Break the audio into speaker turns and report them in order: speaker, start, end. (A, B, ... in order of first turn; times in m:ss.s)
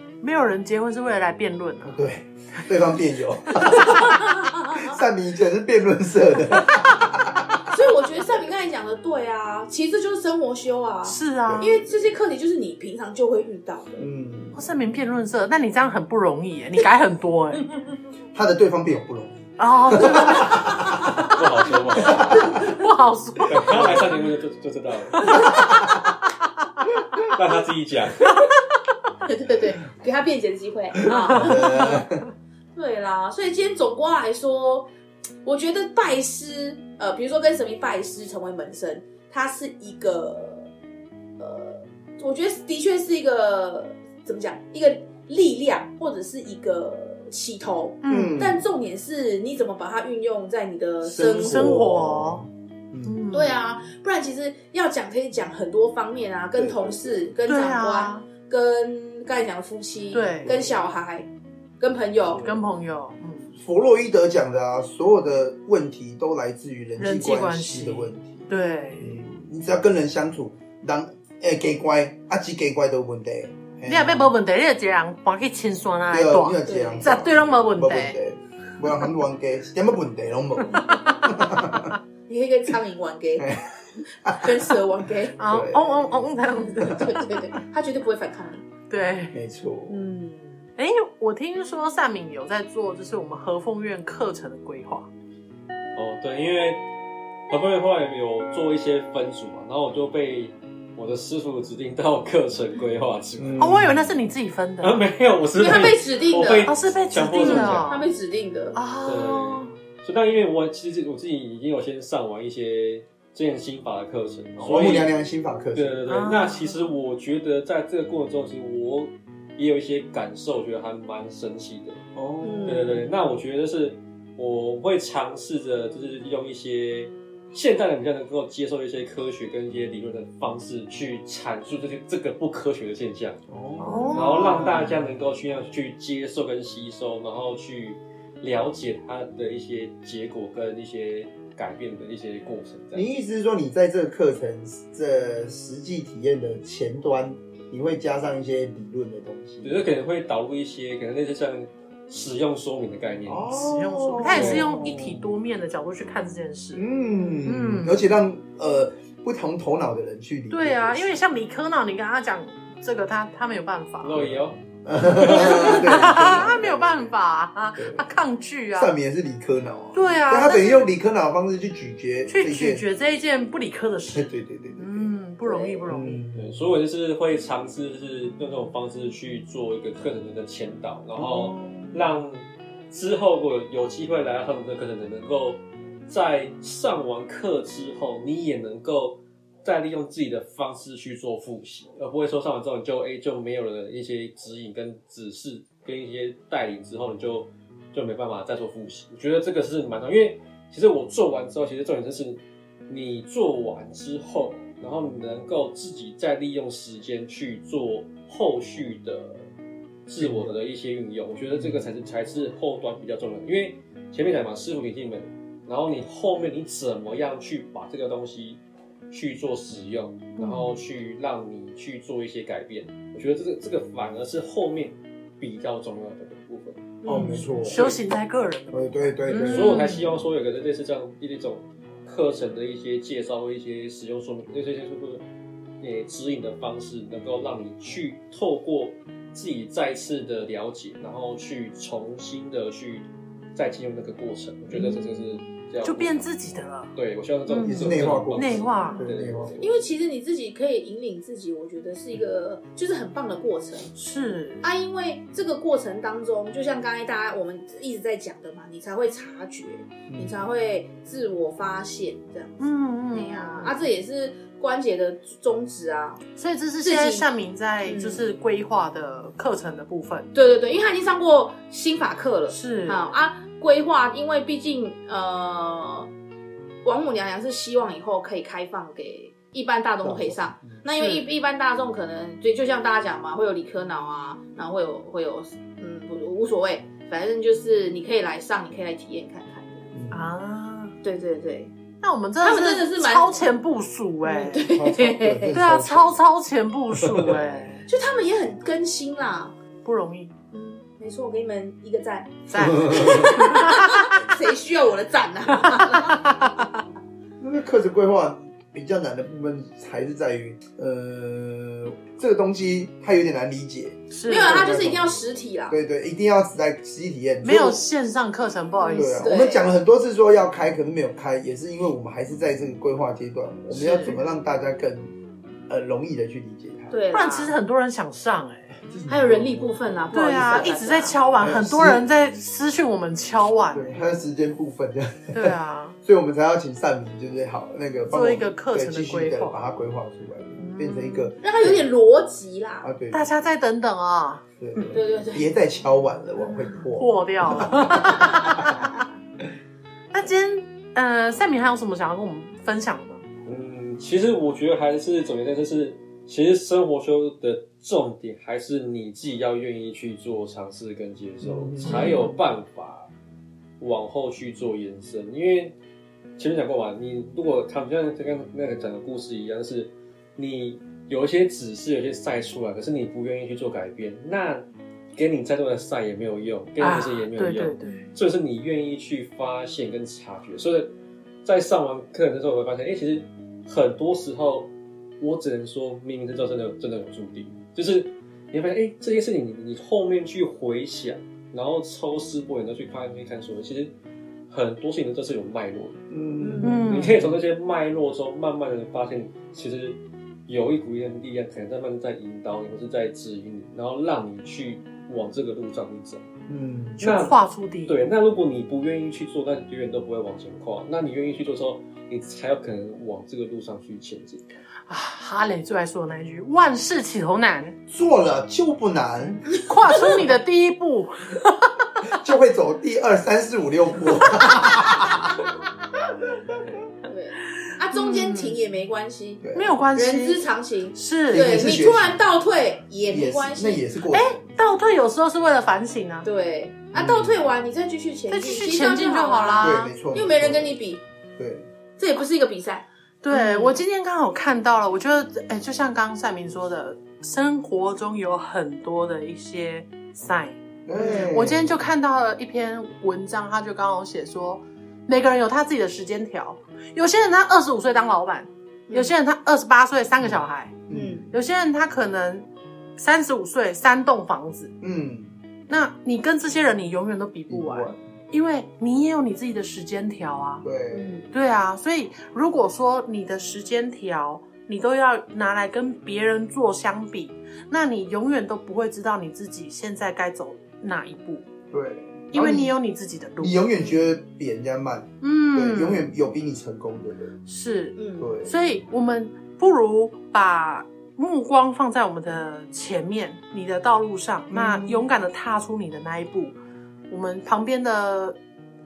0:00.2-0:02.0 A
0:01.8-0:07.7 B
0:04.1-0:04.8 C
0:07.7-0:14.0 C
0:11.0-0:11.7 A
0:11.4-0:11.8 B
0:14.0-0:14.6 B
0:14.5-0:17.6 A
0:18.3-0:21.3 B
0:19.6-0:21.4 A
0:21.2-0:22.4 D
0:22.0-0:24.2 A
0:22.0-0:22.8 B
0:23.5-0:25.5 D
0:23.5-0:24.2 B
0:25.2-0:26.1 B
0:25.2-0:25.6 A
0:27.0-0:27.3 B
0:27.3-0:28.3 D
0:29.2-0:32.0 C
0:31.2-0:31.9 A
0:31.3-0:32.2 B
0:32.7-0:34.9 C
0:35.4-0:40.7 C
0:41.4-0:51.8 C
0:48.0-0:48.4 A
0:48.1-0:48.6 B
0:51.0-0:53.2 B
0:51.2-0:52.4 A
0:53.0-0:53.6 A
0:53.3-1:01.3 C
0:56.5-0:57.3 B
0:57.5-0:58.3 A
1:00.1-1:00.5 A
1:00.4-1:00.7 B
1:01.8-1:02.5 C
1:02.4-1:03.5 A
1:03.6-1:14.3 B
1:07.0-1:09.1 A
1:13.8-1:18.2 A
1:16.1-1:21.9 B
1:16.7-1:17.2 C
1:22.3-1:23.5 C
1:23.4-1:24.5 B
1:24.4-1:25.5 C
1:25.4-1:27.4 A
1:25.4-1:27.0 B
1:26.7-1:28.7 C
1:28.9-1:29.4 A
1:29.3-1:30.0 B
1:29.9-1:30.7 C
1:30.8-1:35.1 A
1:35.9-1:36.8 D
1:37.5-1:43.7 D
1:43.4-1:44.0 B
1:43.6-1:45.0 A
1:44.8-1:47.9 D
1:45.6-1:46.7 C
1:46.6-1:48.0 A
1:47.4-1:47.8 B
1:47.5-1:48.8 C
1:48.7-1:49.7 A
1:49.0-1:55.1 D
1:54.6-1:56.0 B
1:55.7-2:02.0 D
1:56.1-1:56.8 A
2:02.1-2:02.9 B
2:02.4-2:03.0 C
2:02.6-2:13.4 D
2:13.5-2:15.1 B
2:13.8-2:14.7 A
2:14.1-2:23.0 D
2:22.9-2:29.8 B
2:29.6-2:33.5 D
2:33.3-2:35.3 B
2:33.5-2:36.8 A
2:34.2-2:34.8 D
2:36.7-2:41.1 B
2:37.4-2:38.0 A
2:40.5-2:44.2 A
2:44.0-2:44.6 D
2:44.2-2:47.1 B
2:45.2-2:46.6 D
2:45.2-2:48.9 A
2:47.8-2:48.1 B
2:48.7-2:52.8 B
2:49.9-2:50.8 A
2:52.3-2:56.2 A
2:54.1-2:55.1 B
2:55.4-2:56.0 C
2:55.9-2:56.6 B
2:56.4-3:29.4 D
3:01.2-3:02.1 B
3:30.0-3:46.9 D
3:30.2-3:30.6 B
3:31.5-3:31.9 B
3:40.4-3:40.8 A
3:47.0-3:47.5 C
3:47.0-3:48.0 B
3:47.1-3:50.2 A
3:47.7-3:48.0 D
3:48.7-3:49.8 B
3:49.3-3:55.2 D
3:55.8-4:06.3 D
4:04.8-4:05.1 A
4:05.8-4:06.9 A
4:06.9-4:09.8 D
4:07.5-4:09.0 A
4:07.6-4:09.6 B
4:09.6-4:13.9 C
4:14.0-4:14.6 A
4:14.6-4:26.2 C
4:20.1-4:20.4 B
4:22.6-4:23.8 A
4:26.4-4:30.3 A
4:26.8-4:27.3 C
4:27.8-4:28.2 C
4:30.3-4:36.1 C
4:32.5-4:33.0 A
4:36.8-4:49.9 C
4:40.0-4:40.8 B
4:41.0-4:41.2 A
4:49.9-4:50.3 B
4:50.1-4:51.0 A
4:51.0-4:51.7 C
4:52.0-4:54.7 A
4:52.4-4:53.5 C
4:54.2-4:55.5 C
4:54.7-4:56.2 B
4:55.5-4:57.8 A
4:57.9-4:59.6 C
4:59.8-5:00.3 A
5:00.5-5:06.4 C
5:02.5-5:04.1 A
5:02.6-5:03.4 B
5:05.6-5:06.8 A
5:07.4-5:17.8 B
5:14.1-5:14.6 A
5:14.2-5:15.8 C
5:17.4-5:19.3 A
5:18.8-5:19.7 C
5:18.9-5:25.1 B
5:23.7-5:24.2 A
5:25.7-5:27.0 B
5:26.9-5:27.5 C
5:27.1-5:28.8 A
5:28.8-5:29.7 B
5:29.1-5:31.2 C
5:30.1-5:34.0 A
5:31.4-5:32.0 B
5:33.7-5:41.9 B
5:35.3-5:35.9 A
5:38.1-5:39.6 A
5:40.5-5:41.3 A
5:41.4-5:42.9 C
5:42.8-5:43.3 B
5:43.1-5:44.4 A
5:44.6-5:48.8 B
5:44.9-5:45.5 C
5:46.9-5:49.0 A
5:48.0-5:48.7 C
5:50.1-5:53.2 A
5:53.4-6:03.1 D
6:01.4-6:02.2 B
6:01.8-6:02.4 A
6:03.8-6:05.7 D
6:06.4-6:20.9 D
6:16.8-6:18.1 A
6:21.4-6:33.9 D
6:34.5-6:36.0 D
6:36.1-6:37.2 B
6:36.4-6:36.9 C
6:36.6-6:46.2 D
6:36.6-6:37.3 A
6:46.5-6:47.0 B
6:47.0-6:48.0 A
6:47.0-6:54.4 D
6:54.9-6:57.8 A
6:57.9-6:59.6 B
6:59.5-7:01.7 A
7:02.1-7:05.4 B
7:07.0-7:13.9 C
7:07.9-7:08.6 A
7:09.4-7:09.7 B
7:09.5-7:10.4 A
7:11.0-7:11.7 A
7:11.3-7:12.3 B
7:13.1-7:14.6 B
7:14.1-7:16.3 A
7:16.2-7:21.0 C
7:16.9-7:17.4 B
7:18.3-7:19.9 A
7:19.6-7:20.8 B
7:21.4-7:21.7 B
7:22.0-7:23.8 C
7:23.2-7:40.8 A
7:30.8-7:31.9 B
7:31.0-7:31.3 C
7:38.9-7:39.1 C
7:40.2-7:41.2 B
7:40.9-7:41.3 C
7:41.3-7:44.7 A
7:44.8-7:45.3 B
7:45.7-7:50.6 A
7:47.5-7:48.1 B
7:50.6-7:51.2 B
7:50.9-7:51.3 C
7:51.3-8:01.5 A
8:01.7-8:02.7 B
8:02.3-8:03.6 A
8:03.4-8:07.3 B
8:05.2-8:06.1 A
8:07.5-8:16.5 A
8:08.0-8:08.3 C
8:08.2-8:08.5 B
8:14.5-8:15.0 B
8:17.1-8:18.4 A